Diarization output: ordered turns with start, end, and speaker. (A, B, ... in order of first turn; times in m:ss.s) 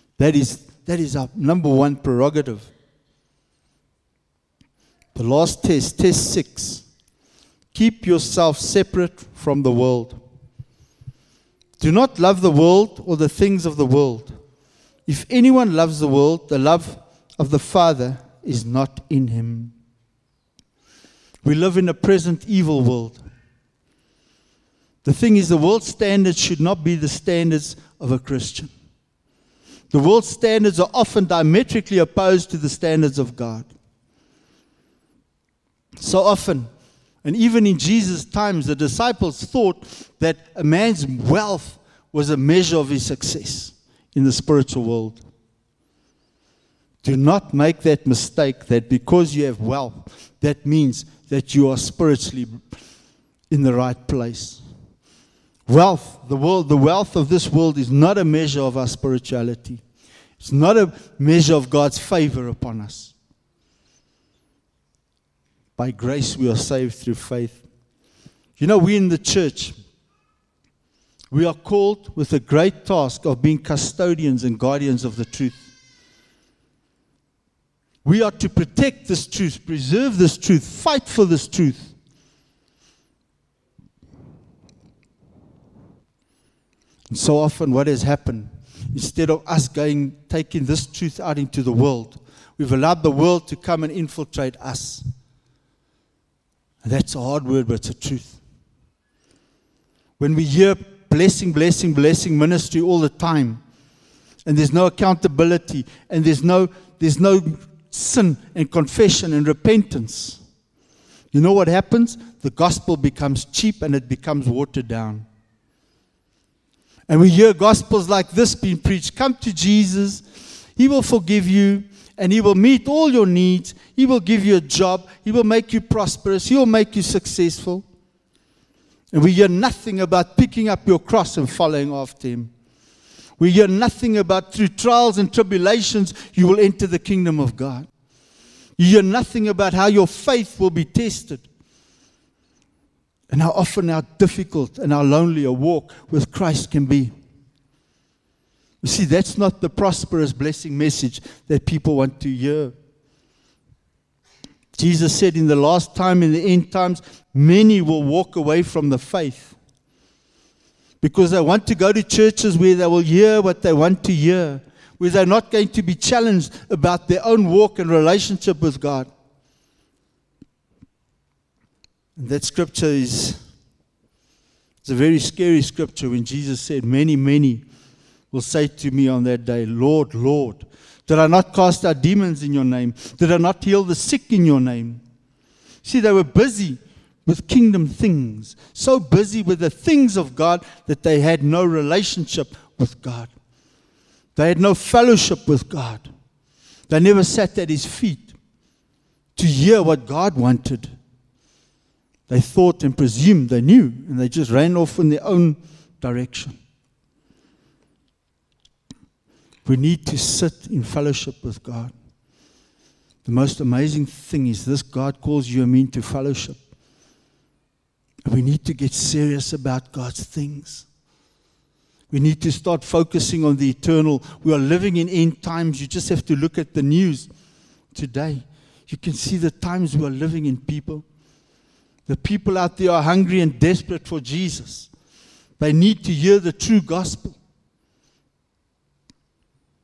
0:00.2-0:02.7 A
0:05.2-0:06.8 A
0:07.7-0:10.2 A
0:11.8-0:14.4 A
0:15.1-0:19.7 A
0:21.4-0:23.2 A
0:25.0-0:28.7 A
0:29.9-0:33.7 A
0:36.0-0:36.7 A
0:37.2-0:45.2 A
0:47.0-0:52.6 A
0:53.5-0:54.6 A
0:55.7-0:59.8 A
1:00.4-1:03.1 A
1:05.8-1:07.6 A
1:08.6-1:09.8 A
1:11.3-1:15.7 A
1:18.0-1:21.9 A
1:27.1-1:35.0 A
1:36.8-1:38.4 A
1:40.2-1:43.6 A
1:44.4-1:50.4 A
1:51.3-1:55.3 A
1:57.1-2:00.2 A
2:00.8-2:07.9 A
2:09.1-2:12.5 A
2:13.4-2:17.9 A
2:18.8-2:21.5 A
2:23.3-2:27.1 A
2:28.8-2:32.7 A
2:34.8-2:39.6 A
2:41.0-2:49.1 A
2:52.2-2:53.4 A
2:54.8-2:57.6 A
2:58.3-3:05.0 A
3:05.8-3:13.3 A
3:14.4-3:16.1 A
3:16.9-3:18.3 A
3:19.4-3:21.0 A
3:22.3-3:26.6 A
3:29.7-3:31.9 A
3:33.2-3:36.6 A
3:38.3-3:40.9 A
3:42.1-3:47.3 A
3:47.9-3:51.0 A
3:52.1-3:54.9 A
3:55.6-3:57.4 A